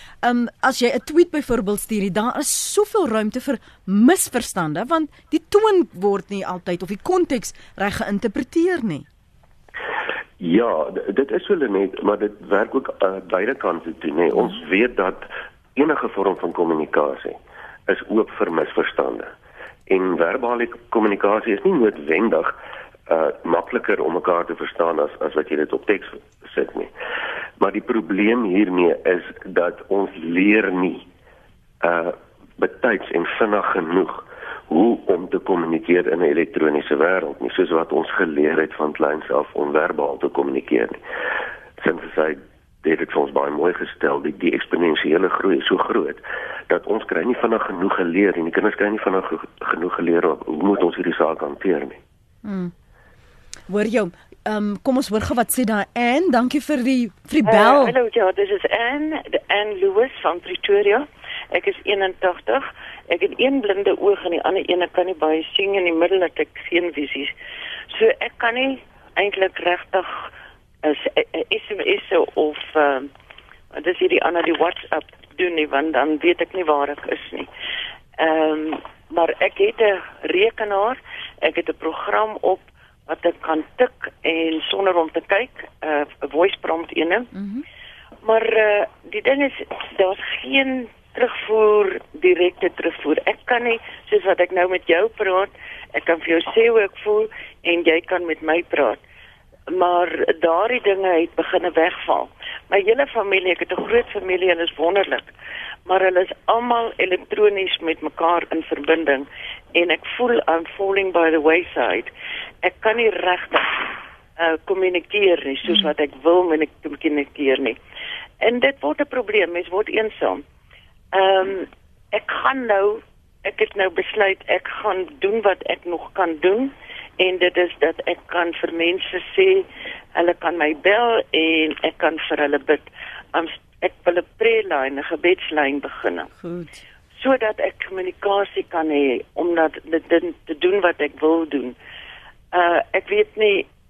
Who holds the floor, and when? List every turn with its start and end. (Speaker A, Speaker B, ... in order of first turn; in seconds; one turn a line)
Speaker A: 0.2-9.1
Speaker B: 10.4-19.3
Speaker B: 19.9-22.5
Speaker B: 23.1-26.9
Speaker B: 27.6-31.1
Speaker B: 31.8-41.0
Speaker B: 41.8-52.0
Speaker A: 52.4-52.7
Speaker A: 53.7-57.9
Speaker C: 57.4-67.3
Speaker C: 67.9-70.3
Speaker C: 70.8-73.1
Speaker C: 73.7-77.5
Speaker C: 78.2-87.3
Speaker A: 87.3-87.6
Speaker C: 88.2-99.0
Speaker C: 99.7-105.3
Speaker C: 105.8-112.1
Speaker C: 112.6-117.8
Speaker C: 118.4-120.4
Speaker C: 121.1-136.3
Speaker A: 136.4-136.8
Speaker C: 137.2-141.7
Speaker C: 142.5-143.7